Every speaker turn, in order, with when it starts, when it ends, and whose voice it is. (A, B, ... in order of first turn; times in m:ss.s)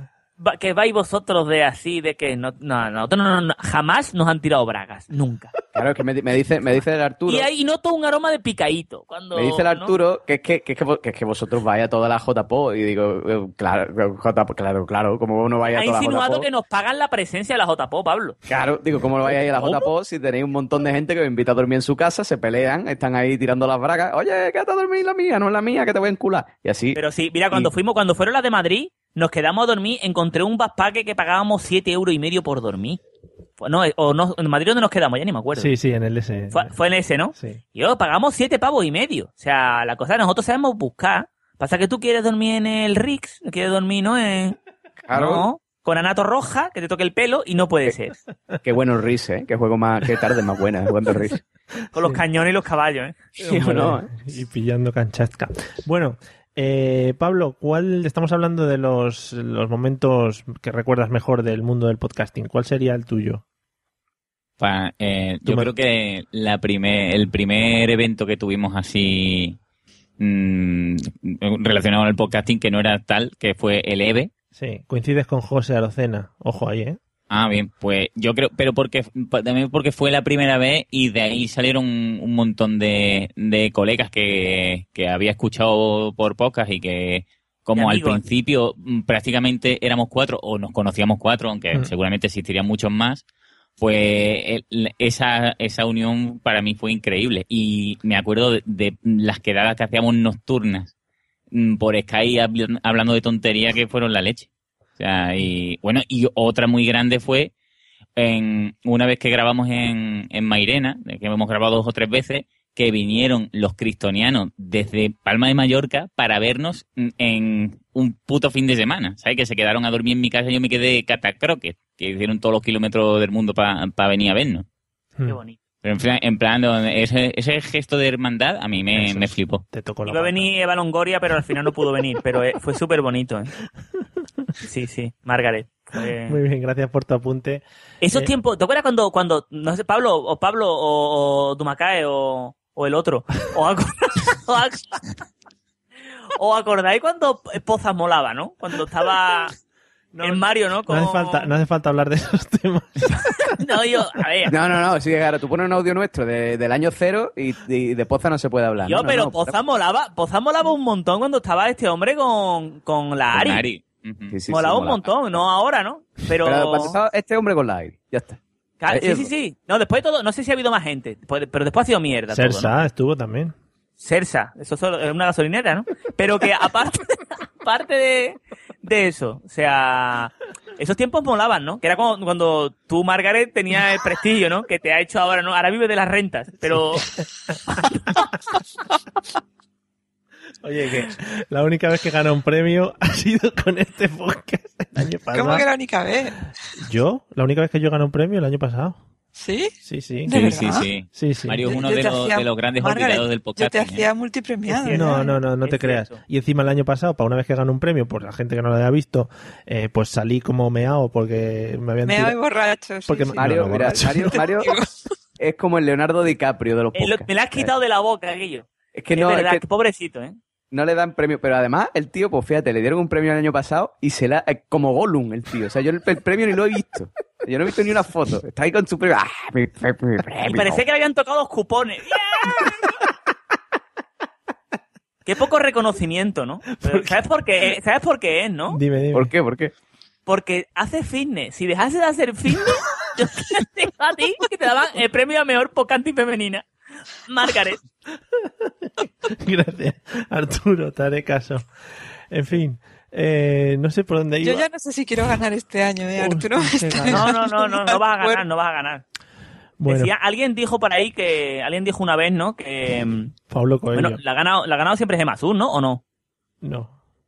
0:00.4-0:05.5 A
0:05.7-0:07.5 B
0:07.3-0:09.9 A
0:09.3-0:16.5 B
0:15.7-0:18.4 A
0:18.5-0:27.0 B
0:19.5-0:19.9 A
0:26.9-0:33.0 A
0:33.6-0:35.7 A
0:35.5-0:36.7 C
0:36.5-0:44.6 A
0:45.1-0:45.4 B
0:45.1-0:48.2 A
0:48.6-0:51.4 B
0:51.9-0:53.7 A
0:51.9-0:52.2 C
0:53.4-1:03.4 C
0:53.4-0:54.1 B
1:04.6-1:09.6 D
1:05.4-1:05.7 C
1:10.2-1:14.3 D
1:14.5-1:17.0 C
1:17.3-1:33.2 D
1:27.8-1:28.2 A
1:33.8-1:40.9 D
1:41.5-1:47.5 D
1:48.2-2:04.6 D
2:05.2-2:05.6 A
2:05.8-2:09.6 D
2:08.9-2:10.5 C
2:10.1-2:13.5 A
2:14.6-2:16.4 A
2:16.2-2:18.3 C
2:18.0-2:25.1 A
2:26.3-2:29.5 A
2:30.1-2:33.5 C
2:30.2-2:31.5 A
2:33.4-2:34.5 A
2:34.5-2:39.6 B
2:38.8-2:43.6 A
2:43.3-2:44.4 D
2:44.3-2:45.1 B
2:44.5-2:47.0 A
2:46.4-2:49.3 B
2:48.8-2:52.7 A
2:52.3-2:53.5 C
2:54.0-3:07.1 A
3:06.7-3:07.2 C
3:10.6-3:15.7 C
3:15.3-3:16.4 E
3:16.8-3:19.0 C
3:19.3-3:19.7 E
3:19.8-3:21.8 C
3:20.2-3:20.9 E
3:20.3-3:24.1 D
3:21.6-3:25.3 E
3:24.8-3:26.2 A
3:24.8-3:32.4 C
3:32.0-3:33.7 E
3:33.1-3:34.4 C
3:33.3-3:34.7 B
3:34.3-3:35.0 E
3:35.4-3:37.7 B
3:36.9-3:40.4 A
3:38.9-3:39.6 B
3:40.7-3:50.8 B
3:50.5-3:52.9 A
3:55.2-3:58.8 A
3:56.8-3:57.2 C
3:58.7-3:59.3 C
3:59.1-3:59.7 B
4:00.3-4:06.7 A
4:07.3-4:07.8 A
4:08.3-4:11.6 C
4:12.3-4:14.6 C
4:14.4-4:18.4 E
4:16.2-4:17.3 C
4:17.1-4:19.0 A
4:19.8-4:20.1 C
4:19.8-4:23.3 A
4:23.5-4:24.2 C
4:23.9-4:26.0 A
4:26.6-4:26.9 C